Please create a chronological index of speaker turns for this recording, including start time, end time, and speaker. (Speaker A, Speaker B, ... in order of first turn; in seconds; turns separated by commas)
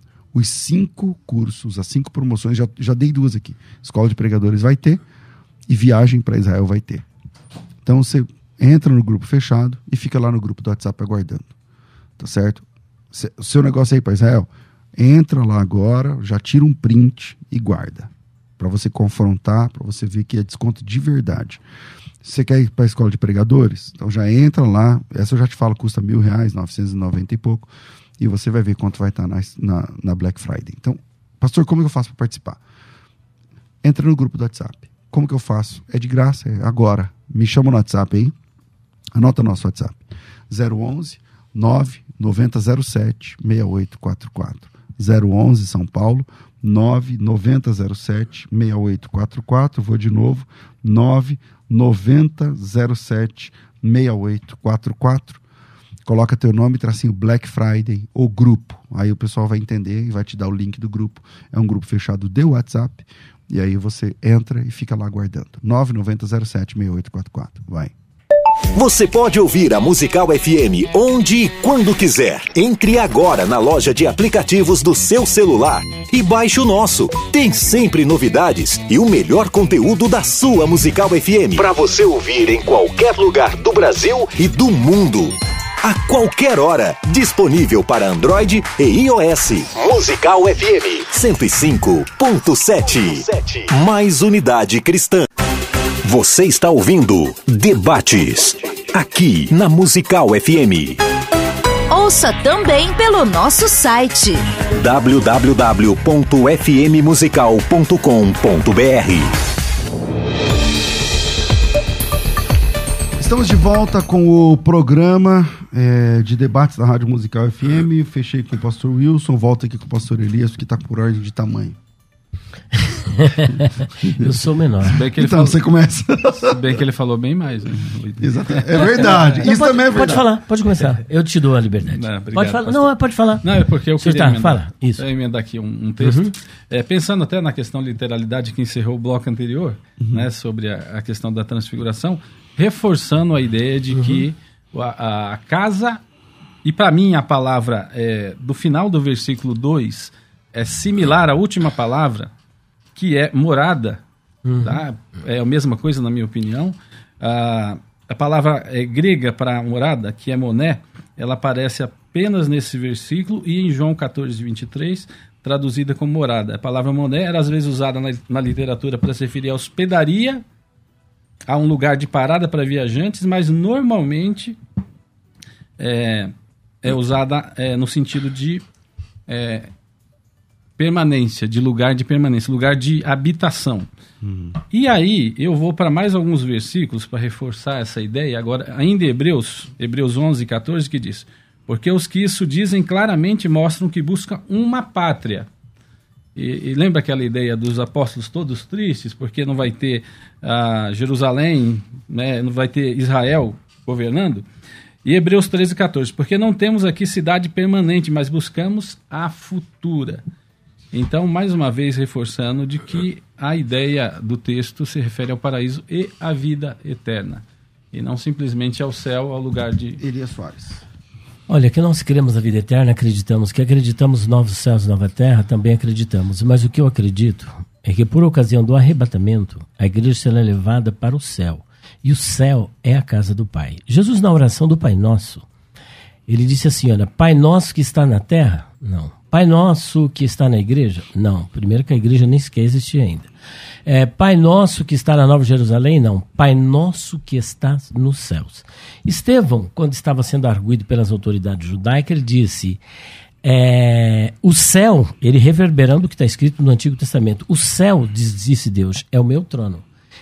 Speaker A: 0.3-5.0, Speaker A: 5.7-7.0, Speaker A: 7.8-11.5, Speaker A: 12.2-21.6, Speaker A: 22.2-32.6, Speaker A: 33.8-38.4, Speaker A: 39.1-55.4, Speaker A: 56.0-67.9, Speaker B: 68.7-95.3, Speaker B: 96.0-101.0, Speaker C: 101.9-104.5, Speaker B: 104.7-109.3, Speaker A: 113.2-121.8, Speaker D: 122.7-125.0, Speaker A: 124.0-126.6, Speaker E: 124.9-125.6, Speaker E: 126.3-129.4, Speaker A: 128.2-130.3, Speaker D: 129.0-133.4, Speaker E: 131.9-132.9, Speaker E: 133.4-146.0, Speaker D: 134.0-135.0, Speaker D: 136.0-136.3, Speaker A: 140.0-140.3, Speaker D: 143.9-144.2, Speaker E: 146.6-152.3, Speaker E: 153.0-154.0, Speaker D: 154.4-154.8, Speaker E: 154.6-170.4, Speaker E: 171.5-174.6, Speaker E: 175.8-176.3, Speaker E: 176.8-178.6, Speaker E: 179.3-179.7, Speaker E: 180.8-183.9, Speaker A: 184.2-184.6, Speaker E: 184.7-195.5, Speaker E: 196.4-204.4, Speaker E: 205.1-210.2, Speaker E: 210.9-220.0, Speaker A: 220.0-220.8, Speaker D: 221.5-235.5, Speaker D: 236.3-243.3, Speaker D: 243.9-252.8, Speaker D: 253.4-259.8